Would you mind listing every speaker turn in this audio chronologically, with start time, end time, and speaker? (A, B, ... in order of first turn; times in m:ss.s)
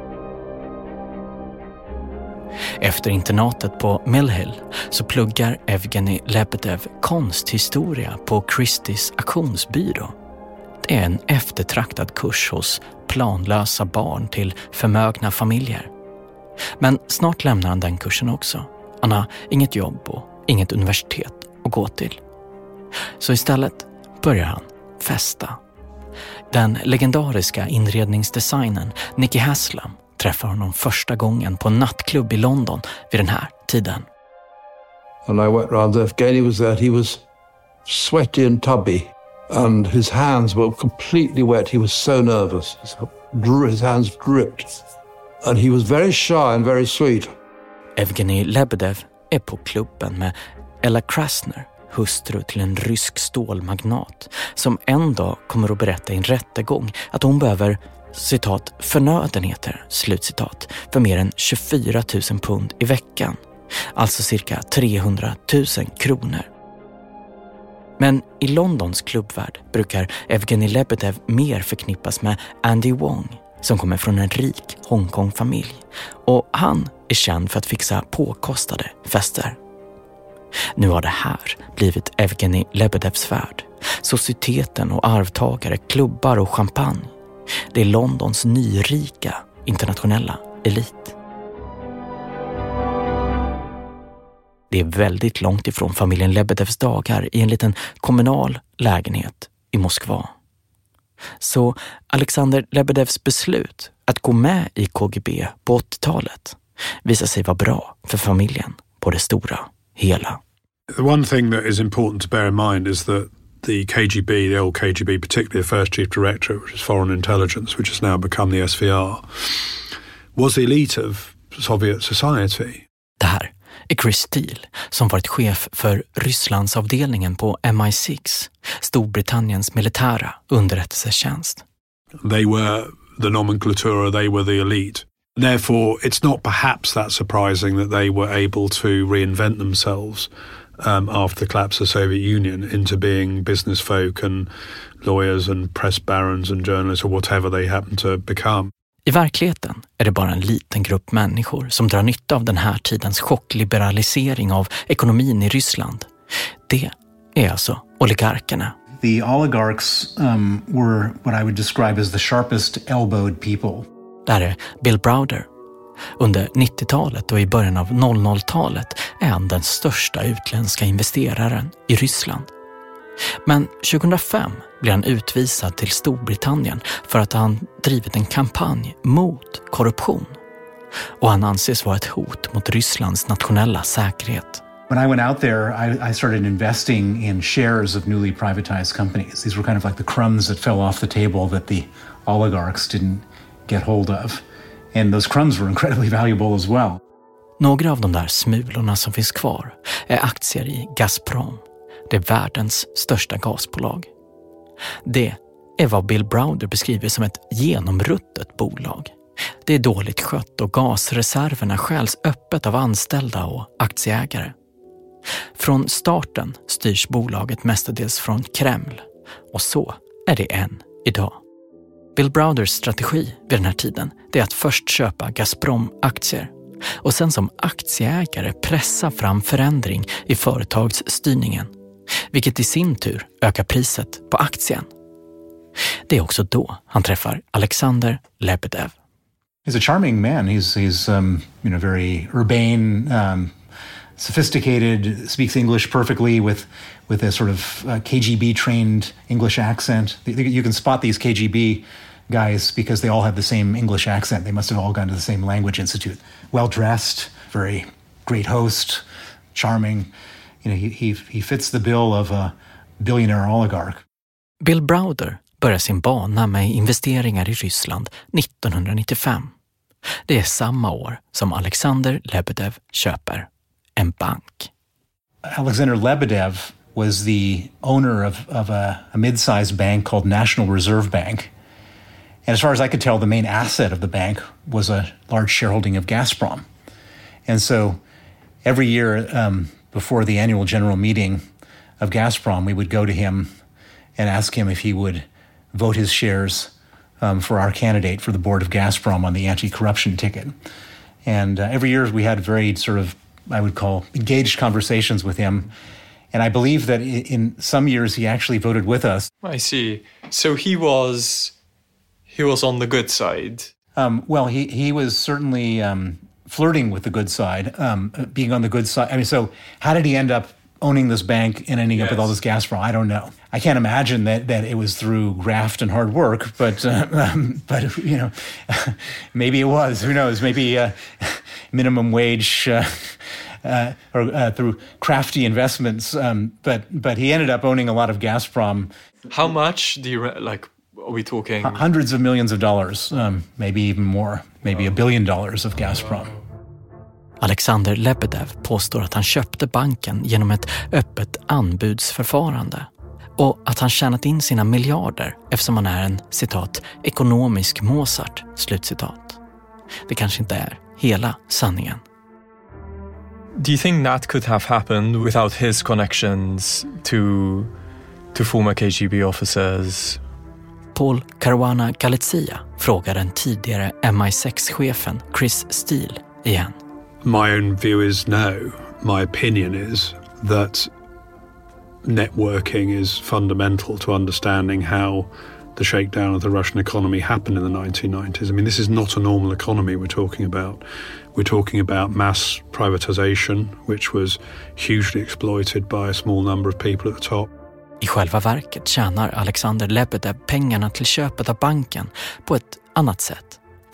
0:02.8-0:10.1 A
0:10.8-0:15.9 A
0:16.8-0:22.2 A
0:23.2-0:25.6 A
0:26.5-0:34.1 A
0:35.2-0:37.2 B
0:37.8-0:44.8 B
0:45.4-0:47.3 B
0:48.0-1:03.4 A
1:03.9-1:06.5 A
1:08.0-1:19.6 A
1:20.8-1:27.1 A
1:27.7-1:31.1 A
1:34.7-1:40.3 A
1:41.4-1:50.4 A
1:50.9-1:59.8 C
2:00.3-2:02.8 C
2:03.2-2:11.6 A
2:12.2-2:24.5 C
2:25.0-2:28.7 C
2:29.0-2:36.1 A
2:36.7-2:38.7 A
2:39.0-2:43.8 D
2:44.2-2:45.5 A
2:46.2-2:52.5 A
2:53.4-3:00.4 A
3:01.2-3:04.6 A
3:04.9-3:14.4 D
3:14.9-3:17.0 D
3:17.6-3:24.1 A
3:25.0-3:29.1 A
3:29.6-3:34.5 A
3:35.6-3:41.4 A
3:42.2-3:46.5 A
3:47.0-3:51.7 A
3:52.3-3:54.9 A
3:56.1-3:58.9 A
3:59.6-4:03.5 D
4:04.2-4:19.0 D
4:19.5-4:20.1 D
4:20.6-4:24.0 D
4:24.6-4:29.5 A
4:30.3-4:34.7 A
4:35.5-4:41.5 D
4:42.4-4:46.6 D
4:47.5-4:48.0 D
4:48.6-4:51.4 D
4:52.0-4:53.5 D
4:54.2-5:00.5 D
5:01.2-5:05.7 D
5:06.3-5:09.3 D
5:09.4-5:11.5 E
5:12.3-5:13.7 E
5:14.0-5:38.9 D
5:21.9-5:22.3 E
5:39.3-5:41.8 E
5:41.6-5:46.3 D
5:47.4-5:59.4 A
6:00.1-6:02.0 A
6:03.6-6:07.7 E
6:08.3-6:10.2 E
6:10.9-6:16.8 A
6:17.2-6:20.9 C
6:22.0-6:37.5 C
6:38.0-6:43.6 A